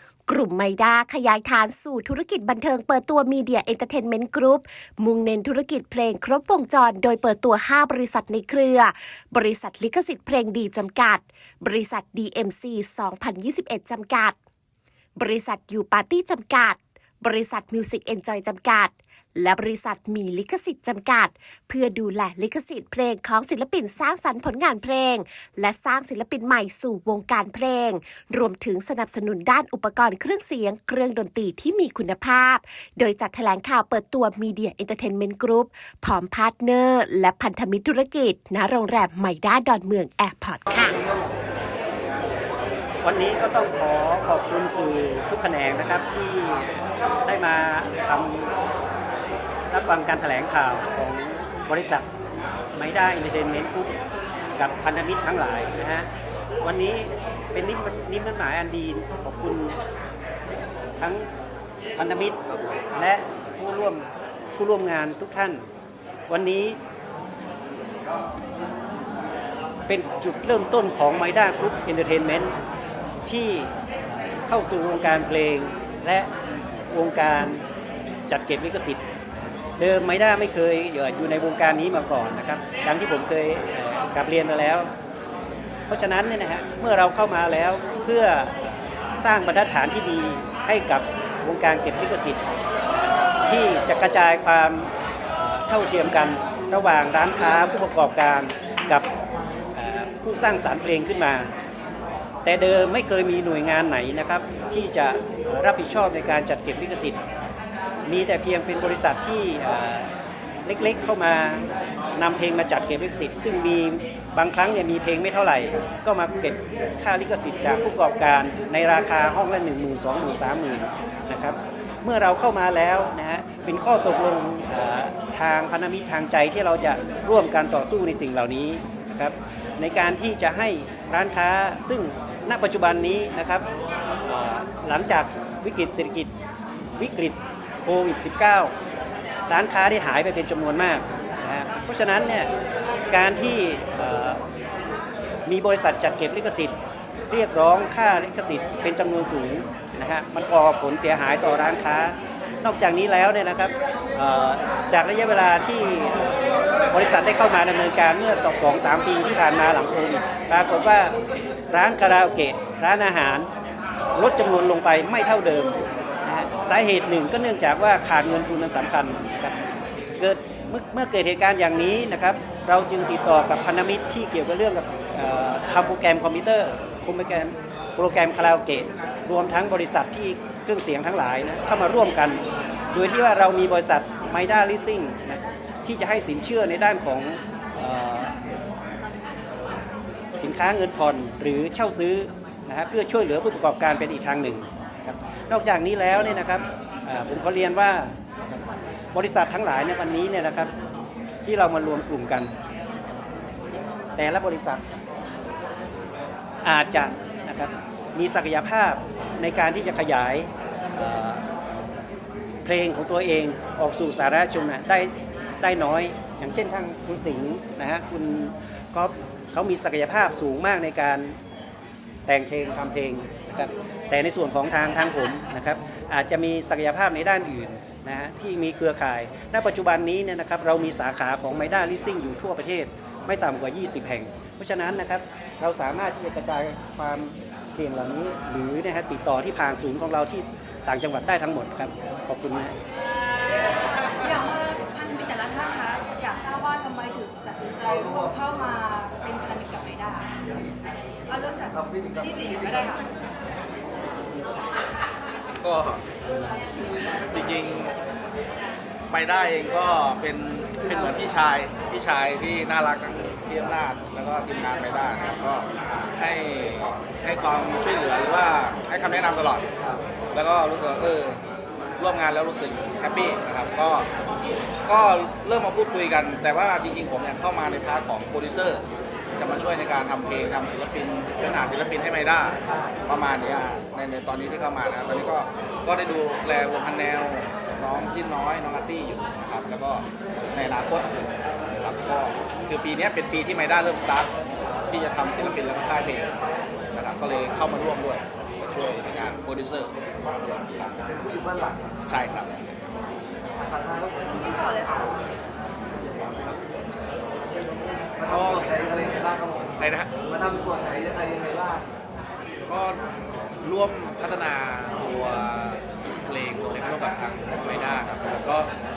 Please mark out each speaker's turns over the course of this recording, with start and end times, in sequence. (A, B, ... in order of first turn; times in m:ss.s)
0:00.3-0:14.4 A
0:15.2-0:41.0 A
0:40.7-0:41.4 B
0:43.0-0:48.5 C
0:49.7-0:52.1 C
0:52.8-0:54.0 C
0:54.6-0:56.1 C
0:56.6-0:59.8 C
1:01.0-1:01.3 C
1:02.0-1:02.4 C
1:03.0-1:05.7 C
1:06.3-1:06.8 C
1:09.9-1:12.6 C
1:13.3-1:16.3 C
1:16.9-1:17.6 C
1:18.3-1:19.0 C
1:19.8-1:24.9 C
1:25.9-1:32.4 C
1:33.4-1:39.1 C
1:39.8-1:41.5 C
1:42.4-1:47.2 C
1:48.1-1:50.1 C
1:50.6-1:51.6 C
1:52.2-2:13.7 C
2:14.2-2:16.3 C
2:17.0-2:18.7 C
2:19.5-2:22.5 C
2:23.1-2:24.4 C
2:25.5-2:26.8 C
2:27.3-2:36.4 C
2:36.9-2:41.2 C
2:41.7-2:43.5 C
2:44.2-2:49.6 C
2:50.2-3:02.4 C
3:02.9-3:08.3 C
3:10.3-3:18.6 C
3:19.1-3:20.7 C
3:21.4-3:22.5 C
3:24.2-3:24.8 C
3:26.6-3:31.4 C
3:32.6-3:41.4 C
3:42.3-4:02.8 C
4:04.0-4:10.3 D
4:07.9-4:08.7 B
4:11.3-4:13.0 D
4:11.7-4:12.9 B
4:15.6-4:16.0 E
4:17.2-4:18.0 E
4:19.1-4:29.7 E
4:20.8-4:21.2 B
4:30.3-4:31.4 E
4:32.0-4:34.1 E
4:34.9-4:38.8 E
4:39.4-4:54.3 E
4:42.7-4:43.0 B
4:54.9-4:56.3 E
4:56.9-4:59.9 E
5:00.5-5:01.0 E
5:01.1-5:02.0 B
5:02.1-5:02.8 E
5:03.6-5:05.2 B
5:04.4-5:05.1 D
5:06.0-5:06.6 B
5:08.2-5:09.8 B
5:08.2-5:08.8 E
5:09.8-5:10.1 E
5:10.3-5:11.9 B
5:12.7-5:13.0 E
5:13.6-5:18.7 E